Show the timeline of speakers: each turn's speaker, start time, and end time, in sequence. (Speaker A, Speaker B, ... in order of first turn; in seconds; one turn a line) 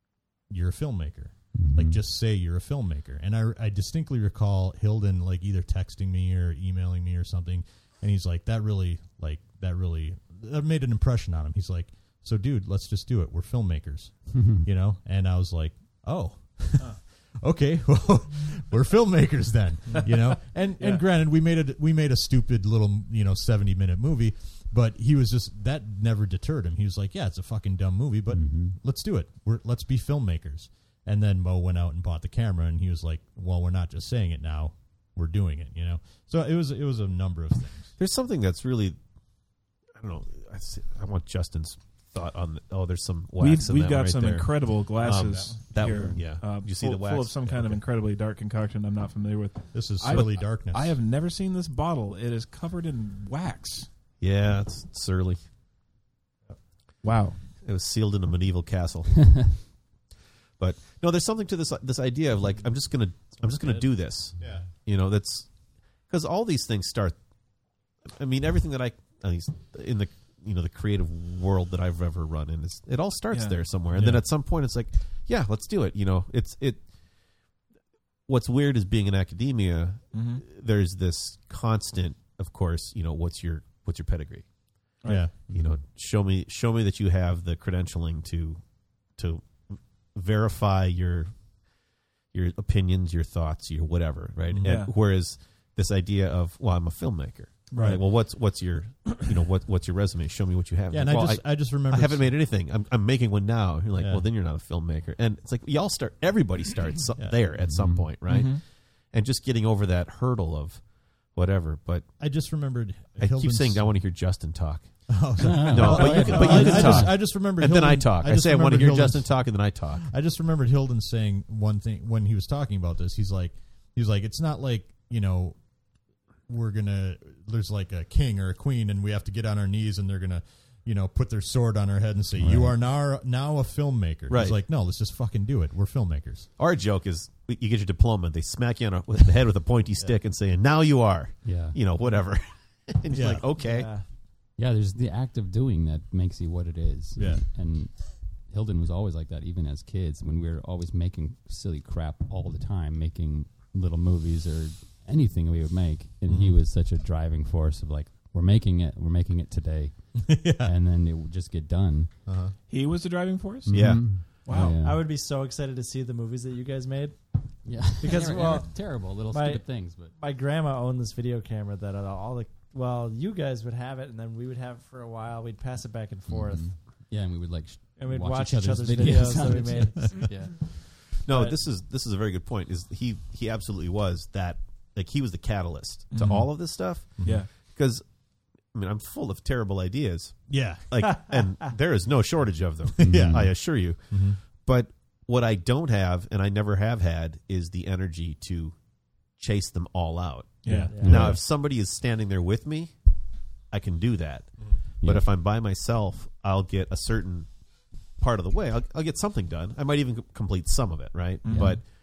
Speaker A: 0.5-37.9
Speaker B: 1.6-2.0
Speaker B: 14.3-14.7
Speaker C: 20.8-21.0
Speaker B: 28.3-28.8
Speaker D: 38.0-39.0
Speaker D: 40.0-47.8
Speaker C: 43.4-53.9
Speaker A: 45.0-46.2
Speaker A: 49.7-51.0
Speaker D: 54.2-55.4
Speaker C: 57.0-57.4
Speaker D: 57.6-59.7
Speaker D: 60.6-65.5
Speaker A: 64.4-64.7
Speaker D: 66.1-67.2
Speaker D: 68.2-76.8
Speaker C: 73.3-74.1
Speaker D: 78.3-84.5
Speaker C: 80.1-80.4
Speaker A: 85.0-85.4
Speaker D: 85.5-88.6
Speaker D: 89.2-91.3
Speaker D: 92.3-110.8
Speaker A: 94.5-94.8
Speaker C: 94.7-94.9
Speaker A: 97.7-98.0
Speaker A: 100.9-102.3
Speaker A: 104.0-104.2
Speaker B: 107.6-108.1
Speaker C: 108.3-108.6
Speaker D: 111.3-112.1
Speaker A: 112.2-113.9
Speaker D: 113.2-114.9
Speaker A: 115.1-119.4
Speaker B: 115.4-117.2
Speaker D: 115.5-120.1
Speaker A: 120.0-125.6
Speaker A: 126.5-136.5
Speaker B: 132.4-132.8
Speaker D: 134.3-134.6
Speaker D: 136.6-143.9
Speaker B: 141.4-141.8
Speaker A: 143.1-143.4
Speaker E: 143.6-144.0
Speaker B: 144.6-162.2
Speaker A: 147.2-147.4
Speaker A: 156.3-156.6
Speaker A: 160.2-160.7
Speaker A: 162.3-162.5
Speaker C: 162.7-164.8
Speaker B: 163.7-165.1
Speaker D: 163.7-164.2
Speaker E: 164.8-176.8
Speaker B: 167.6-170.1
Speaker B: 176.3-180.7
Speaker E: 178.0-180.5
Speaker A: 179.9-180.3
Speaker D: 181.1-188.0
Speaker E: 181.3-181.6
Speaker C: 186.1-186.5
Speaker A: 187.2-187.4
Speaker C: 187.2-187.5
Speaker D: 188.7-194.0
Speaker A: 190.5-191.0
Speaker A: 193.0-193.5
Speaker B: 193.0-193.5
Speaker A: 194.1-194.4
Speaker D: 194.6-198.8
Speaker D: 199.4-202.9
Speaker C: 200.6-201.0
Speaker A: 200.7-201.4
Speaker B: 201.0-201.4
Speaker D: 203.7-207.5
Speaker B: 205.0-205.3
Speaker D: 208.2-211.8
Speaker C: 211.4-211.8
Speaker B: 211.5-211.8